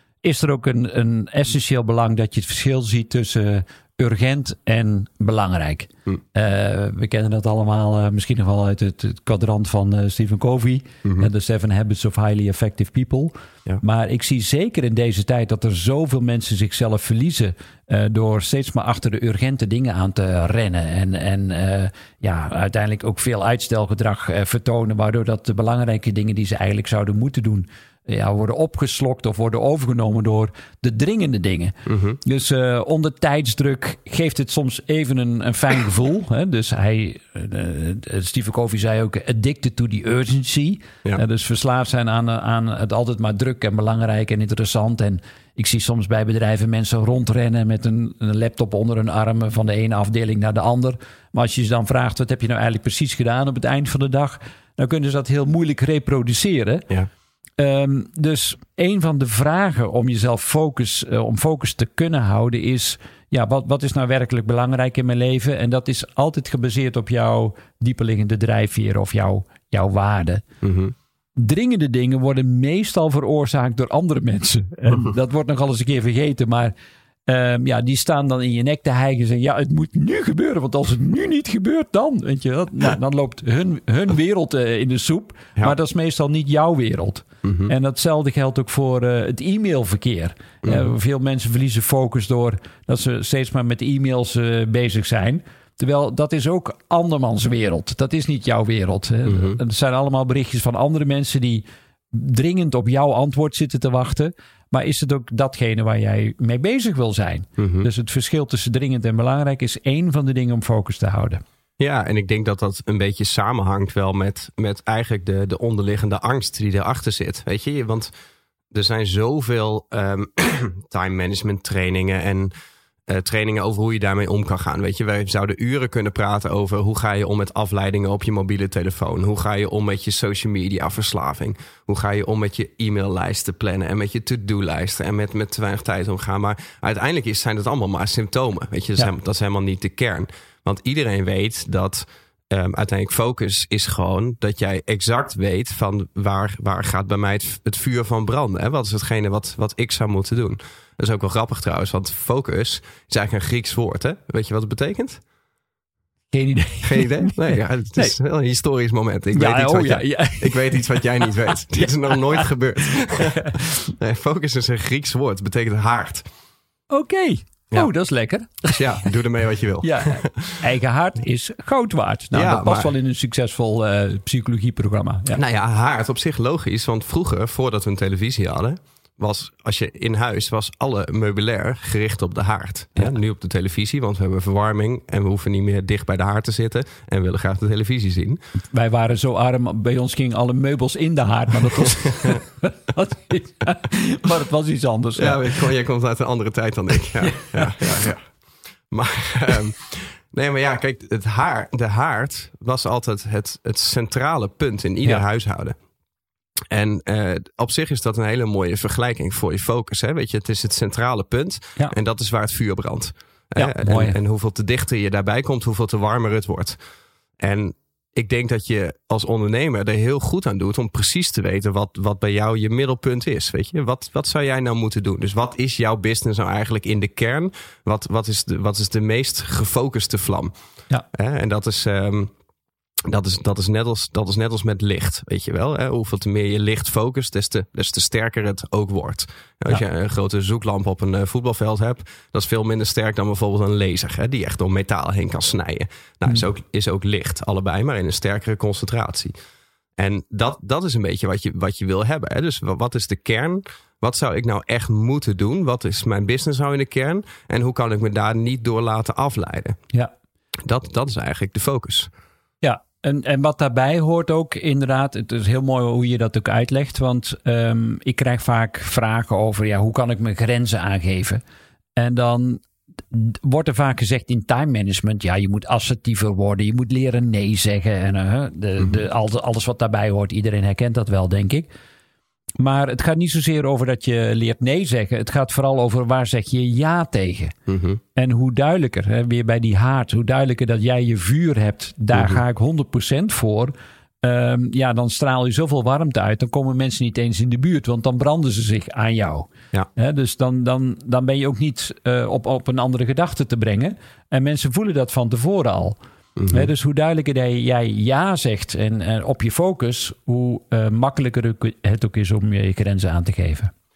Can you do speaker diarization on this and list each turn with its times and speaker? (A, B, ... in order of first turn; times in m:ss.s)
0:00.2-0:56.9 A
0:31.8-0:32.2 B
0:57.6-1:10.4 A
1:10.6-1:10.9 B
1:11.4-1:16.7 A
1:17.2-1:51.4 A
1:27.4-1:27.7 B
1:39.3-1:39.6 B
1:47.6-1:47.9 B
1:51.8-1:58.1 B
1:58.7-2:02.5 B
2:03.1-2:35.2 B
2:36.3-2:38.1 A
2:36.8-2:46.2 B
2:39.3-2:42.5 A
2:46.9-2:49.1 A
2:48.7-2:50.6 B
2:49.8-2:55.4 A
2:52.3-2:52.9 B
2:55.3-3:08.4 B
3:08.7-3:15.5 A
3:15.2-3:18.2 B
3:17.4-3:17.8 A
3:18.9-3:25.7 B
3:26.7-3:36.8 B
3:33.6-3:34.2 A
3:37.4-3:50.5 B
3:51.1-3:52.3 B
3:53.1-4:09.3 B
4:10.0-4:19.8 B
4:20.6-4:22.1 B
4:22.6-4:31.4 A
4:32.0-4:41.7 A
4:42.6-4:47.5 A
4:47.7-4:48.0 B
4:48.1-5:06.0 A
4:52.1-4:52.4 B
5:06.4-5:06.7 B
5:06.5-5:13.7 A